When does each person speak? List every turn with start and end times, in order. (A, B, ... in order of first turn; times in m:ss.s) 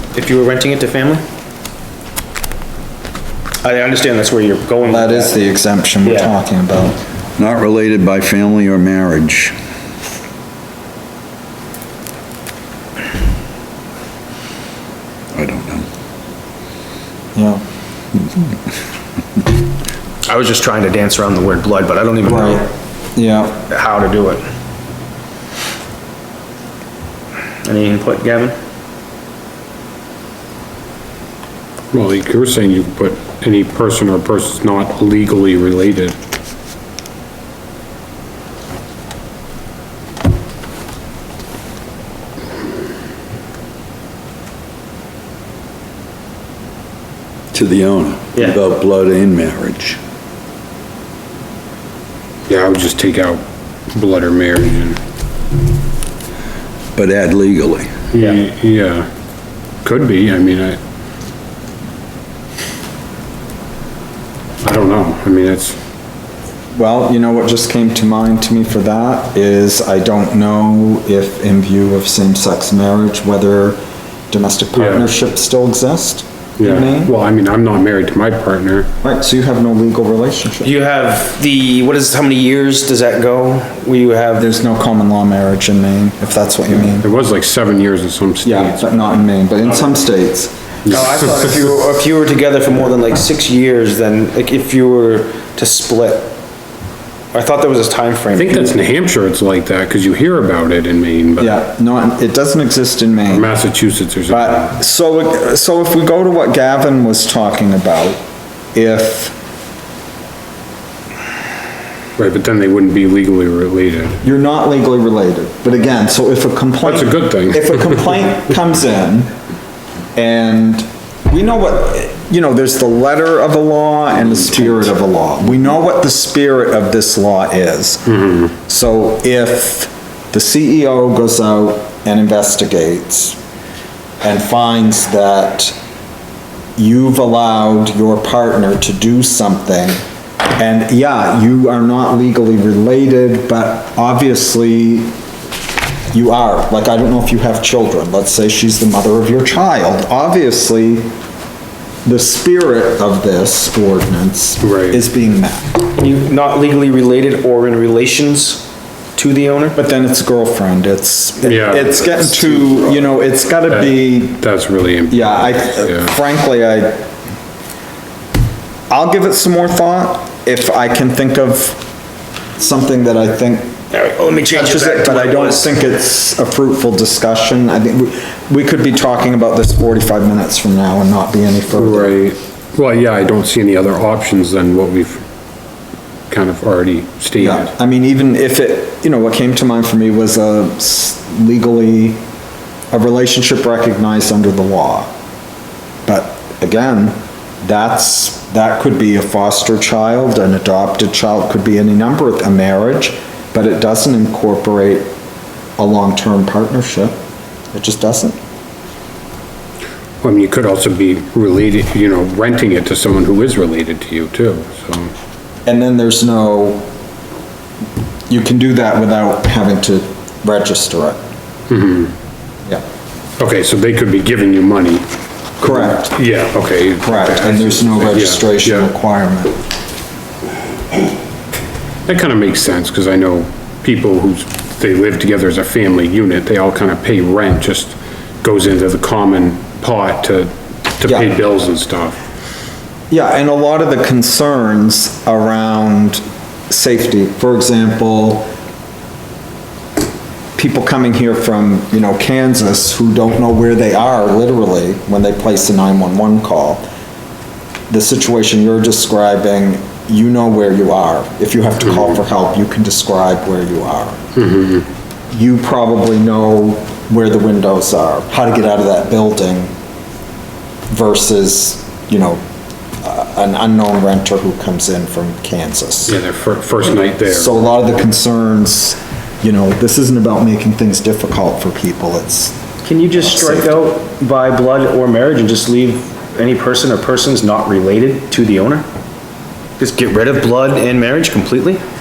0:00.1-0:01.2 A
0:03.6-0:05.4 A
0:04.8-0:07.0 B
0:06.0-0:06.3 A
0:07.4-0:09.5 C
0:15.3-0:15.8 C
0:17.3-0:17.6 B
0:20.2-0:22.7 A
0:22.2-0:23.6 B
0:23.7-0:24.4 A
0:27.6-0:28.5 A
0:31.9-0:36.2 D
0:47.5-0:50.0 C
0:52.5-0:55.0 D
0:56.9-0:57.9 C
0:58.1-0:59.0 D
0:59.8-1:00.8 D
1:04.6-1:05.8 D
1:06.7-1:13.8 B
1:14.3-1:17.1 B
1:14.7-1:15.1 D
1:16.6-1:18.9 D
1:19.0-1:20.7 B
1:20.6-1:24.5 A
1:24.4-1:27.1 B
1:27.0-1:29.3 D
1:28.4-1:30.5 B
1:30.9-1:36.3 A
1:37.3-1:38.8 A
1:38.3-1:41.6 D
1:41.4-1:43.5 B
1:43.3-1:44.6 D
1:44.3-1:48.2 B
1:48.7-1:49.3 B
1:52.2-1:54.2 D
1:54.2-1:59.3 B
1:56.8-1:58.0 D
2:00.2-2:08.2 B
2:08.7-2:13.4 B
2:14.2-2:15.7 B
2:16.8-2:20.0 B
2:20.6-2:25.1 B
2:26.1-2:31.1 B
2:32.0-2:35.7 B
2:34.6-2:35.0 D
2:35.9-2:39.8 A
2:39.8-2:44.4 B
2:41.4-2:43.0 D
2:43.7-2:46.1 D
2:45.1-2:47.1 B
2:48.9-2:51.8 B
2:52.6-2:53.8 B
2:53.9-2:55.7 A
2:54.5-3:02.1 B
3:01.7-3:05.2 D
3:06.3-3:07.7 D
3:07.4-3:12.2 B
3:12.9-3:15.1 B
3:16.0-3:25.1 B
3:25.8-3:27.1 B
3:27.7-3:28.4 B
3:30.2-3:35.1 D
3:35.6-3:36.9 B
3:38.3-3:41.2 B
3:41.7-3:42.1 D
3:43.4-3:45.0 D
3:45.6-3:46.1 B
3:45.6-3:48.9 D
3:47.0-3:49.5 B
3:52.0-4:02.2 D
4:01.0-4:01.4 B
4:03.1-4:08.5 B
4:10.6-4:16.8 B
4:17.9-4:24.2 B
4:21.8-4:22.2 D
4:24.4-4:24.9 D
4:25.3-4:29.7 B
4:30.9-4:32.4 B
4:33.0-4:36.1 B
4:36.0-4:37.5 D
4:37.2-4:42.6 B
4:42.8-4:48.8 A
4:43.1-4:43.8 B
4:49.8-4:51.8 A